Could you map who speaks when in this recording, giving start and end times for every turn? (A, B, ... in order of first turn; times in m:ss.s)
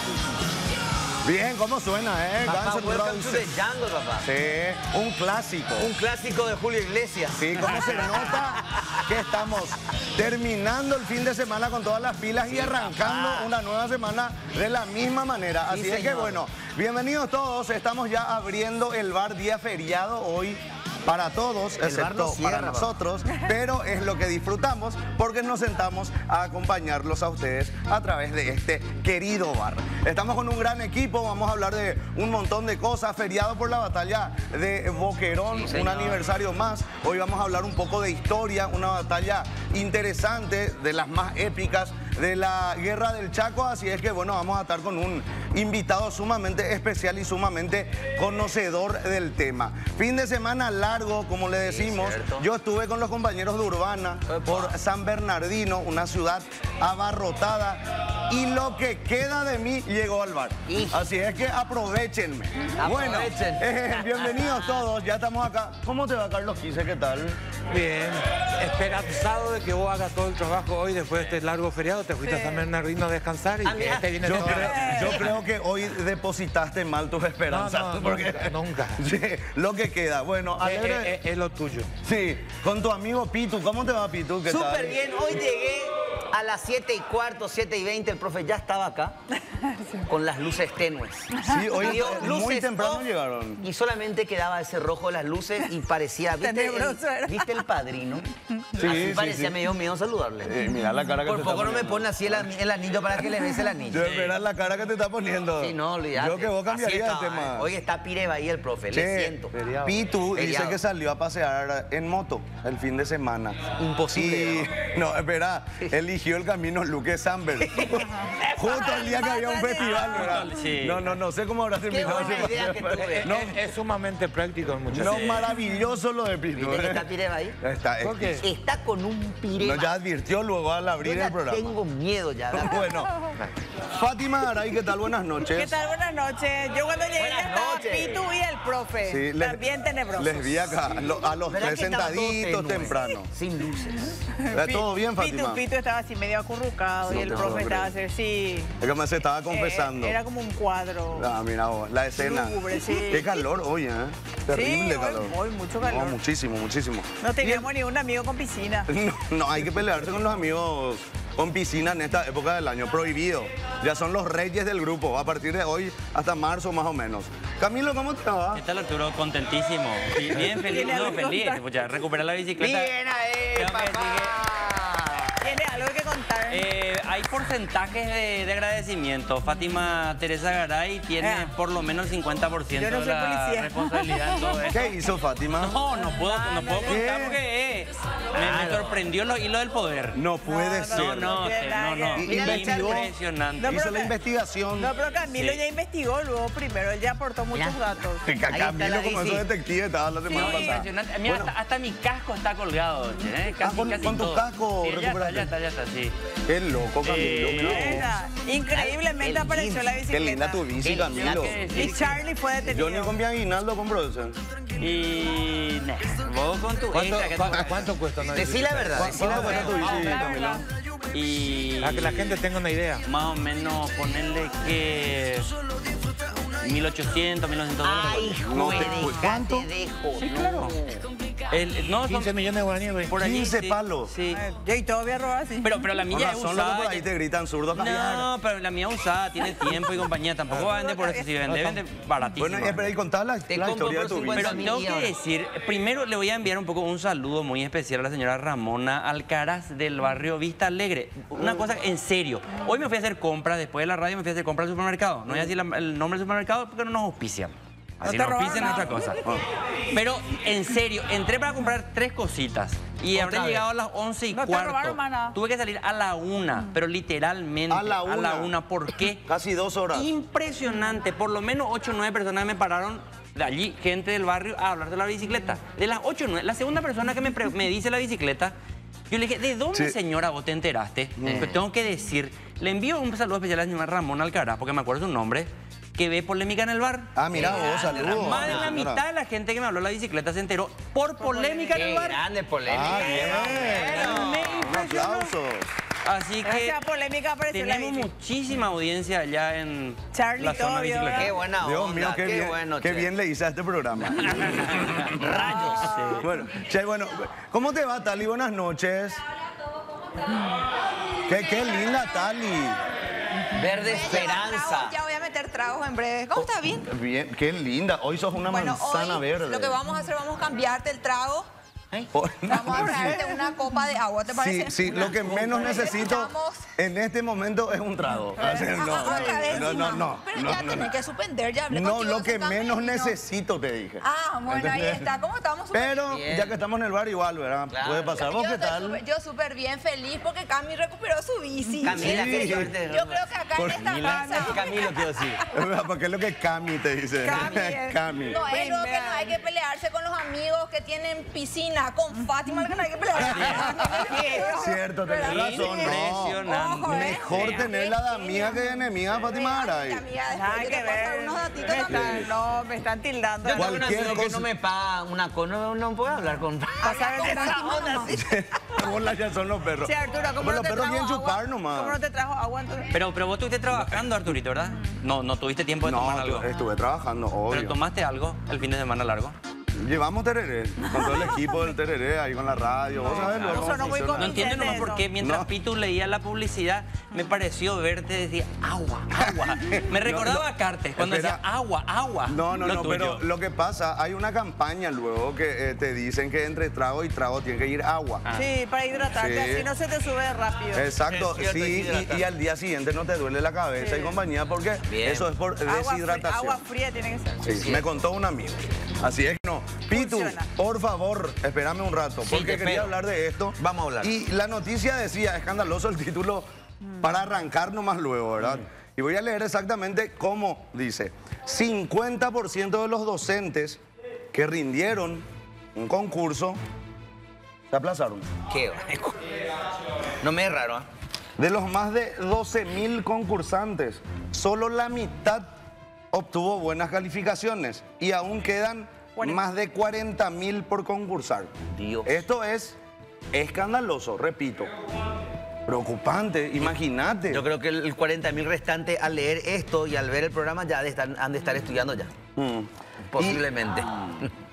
0:01.2-0:03.5 A
0:02.4-0:04.3 B
0:04.2-0:06.0 A
0:05.8-0:09.0 B
0:07.4-1:07.4 A
0:12.5-0:13.5 B
0:15.7-0:16.4 B
0:21.8-0:22.9 B
0:35.5-0:36.3 B
0:51.6-0:52.5 B
0:54.3-0:54.7 B
1:00.7-1:01.0 B
1:02.8-1:04.8 B
1:07.7-1:15.4 C
1:13.6-1:14.8 B
1:14.2-1:21.2 A
1:14.7-1:15.2 D
1:17.5-1:19.0 C
1:20.6-1:21.9 C
1:22.0-1:25.0 A
1:24.5-1:29.2 B
1:29.5-1:30.1 D
1:30.1-1:33.1 B
1:31.4-1:31.7 D
1:31.4-1:33.6 A
1:33.6-1:38.3 B
1:36.4-1:37.6 D
1:38.8-1:39.6 A
1:38.8-1:40.5 B
1:40.4-1:42.5 A
1:41.3-1:44.2 B
1:43.9-1:47.7 A
1:45.6-1:49.5 B
1:48.9-2:03.6 A
1:49.6-1:49.9 C
1:50.3-1:50.8 B
1:53.8-1:54.7 B
1:58.7-2:00.1 E
1:59.4-2:00.2 D
2:00.0-2:01.1 F
2:01.9-2:03.5 B
2:02.1-2:05.5 C
2:04.9-2:07.1 A
2:05.0-2:05.4 F
2:06.6-2:07.6 B
2:07.6-2:08.4 A
2:08.0-2:08.5 C
2:08.4-2:09.9 B
2:09.6-2:11.8 A
2:11.0-2:13.0 B
2:12.5-2:13.2 A
2:13.8-2:15.8 A
2:15.5-2:20.8 D
2:17.2-2:18.2 B
2:19.0-2:19.6 A
2:20.1-2:23.3 A
2:21.5-2:24.3 B
2:24.3-2:28.8 D
2:24.5-2:25.6 A
2:27.1-2:27.9 A
2:27.1-2:27.6 B
2:28.8-2:30.2 A
2:29.5-2:31.3 D
2:31.2-2:37.7 A
2:32.2-2:33.4 D
2:34.5-2:36.2 D
2:37.2-2:38.9 D
2:38.9-2:48.6 A
2:48.5-2:53.0 F
2:50.7-2:51.6 D
2:52.6-2:55.0 B
2:53.5-2:54.4 F
2:55.4-2:56.6 D
2:56.5-3:04.9 F
3:01.2-3:01.5 D
3:02.7-3:04.3 D
3:04.7-3:05.8 A
3:05.6-3:10.2 F
3:06.0-3:07.0 D
3:06.8-3:07.4 A
3:08.4-3:09.0 B
3:10.1-3:11.4 A
3:10.4-3:12.3 D
3:10.9-3:13.8 F
3:12.2-3:13.1 A
3:12.2-3:13.1 B
3:13.6-3:14.1 D
3:13.6-3:14.9 A
3:14.8-3:18.3 D
3:15.3-3:15.6 F
3:17.5-3:17.8 B
3:18.2-3:21.5 A
3:18.4-3:19.5 B
3:20.3-3:26.2 F
3:20.3-3:20.8 D
3:23.6-3:25.5 A
3:26.5-3:28.1 A
3:27.0-3:28.0 F
3:27.5-3:30.6 D
3:28.7-3:30.0 B
3:30.1-3:31.6 A
3:30.8-3:31.7 B
3:31.1-3:32.2 F
3:31.7-3:33.2 D
3:32.7-3:34.4 A
3:34.8-3:37.9 F
3:36.9-3:40.6 C
3:38.3-3:40.1 B
3:38.9-3:40.7 A
3:39.8-3:40.6 D
3:41.1-3:42.4 F
3:41.8-3:43.0 C
3:43.0-3:45.5 F
3:46.5-3:49.0 F
3:47.8-3:51.0 B
3:48.5-3:49.4 A
3:48.7-3:49.7 C
3:50.3-3:50.7 F
3:51.5-3:52.3 F
3:52.1-3:53.2 C
3:53.1-3:54.4 F
3:53.1-3:54.1 A
3:54.3-3:55.8 D
3:55.6-3:57.0 F
3:56.1-3:58.3 A
3:57.8-4:02.9 F
4:00.6-4:01.3 D
4:01.4-4:01.8 C
4:02.4-4:04.8 A
4:03.5-4:05.1 B
4:04.3-4:19.2 F
4:18.0-4:19.3 D
4:19.2-4:19.4 A
4:19.9-4:29.3 F
4:23.2-4:23.6 B
4:24.3-4:25.4 D
4:27.7-4:28.6 A
4:29.3-4:30.1 A
4:29.9-4:38.6 F
4:39.1-4:52.2 F
4:41.2-4:41.5 A
4:41.2-4:41.6 B
4:47.2-4:49.0 A
4:47.3-4:48.8 B
4:51.2-4:52.0 D
4:51.7-4:54.6 B
4:52.7-4:55.7 A
4:53.2-4:54.2 D
4:53.6-4:55.3 F
4:56.0-4:56.8 F
4:56.4-4:58.1 D
4:57.5-5:01.3 F
5:00.1-5:01.4 D
5:01.1-5:03.1 B
5:01.6-5:05.6 A
5:04.5-5:06.3 F
5:06.2-5:09.2 A
5:11.3-5:12.8 A
5:13.6-5:15.0 B
5:13.8-5:16.9 E
5:16.4-5:19.8 A
5:18.5-5:21.5 E
5:22.1-5:23.2 A
5:22.4-5:26.7 E
5:22.7-5:23.1 B
5:24.3-5:31.0 A
5:25.0-5:25.7 B
5:28.4-5:33.2 E
5:31.7-5:35.1 A
5:34.0-5:36.1 E
5:35.7-5:39.0 A
5:36.1-5:36.5 B
5:37.7-5:38.2 B
5:38.2-5:45.4 E
5:41.8-5:43.3 B
5:41.9-5:42.7 A
5:43.6-5:43.9 A
5:43.9-5:45.4 B
5:44.0-5:44.6 D
5:45.5-5:48.4 A
5:47.2-6:02.3 E
5:48.5-5:49.3 D
5:53.1-5:54.5 D
5:53.2-5:53.7 F
5:53.2-6:00.1 A
5:55.2-5:57.4 F
6:00.3-6:04.1 D
6:01.8-6:02.3 A
6:03.5-6:07.3 B
6:03.5-6:04.5 A
6:06.8-6:08.1 D
6:06.8-6:08.2 E
6:08.0-6:12.0 A
6:09.9-6:11.4 E
6:11.7-6:12.9 D
6:12.9-6:16.5 F
6:13.8-6:14.1 A
6:15.8-6:17.8 A
6:17.5-6:19.4 F
6:19.8-6:24.6 A
6:23.0-6:25.1 D
6:24.2-6:33.2 F
6:25.2-6:25.5 A
6:29.2-6:31.4 A
6:32.3-6:38.2 A
6:38.4-6:40.9 D
6:39.0-6:39.7 A
6:40.7-6:46.6 A
6:41.1-6:42.2 B
6:43.8-6:44.2 D
6:44.9-6:45.3 B
6:45.7-6:47.6 D
6:47.4-6:47.8 B
6:47.4-6:56.4 A
6:49.9-6:50.5 D
6:52.3-6:52.9 B
6:53.6-6:54.1 B
6:57.0-7:03.8 A
7:04.3-7:06.6 A
7:07.7-7:08.3 A
7:08.5-7:09.2 B
7:10.2-7:10.9 B
7:11.4-7:15.5 A
7:16.1-7:21.5 A
7:19.2-7:19.4 D
7:21.7-7:22.2 B
7:22.0-7:22.8 A
7:23.3-7:24.7 A
7:25.7-7:27.5 A
7:27.3-7:32.1 B
7:32.4-7:33.5 A
7:33.1-7:34.3 B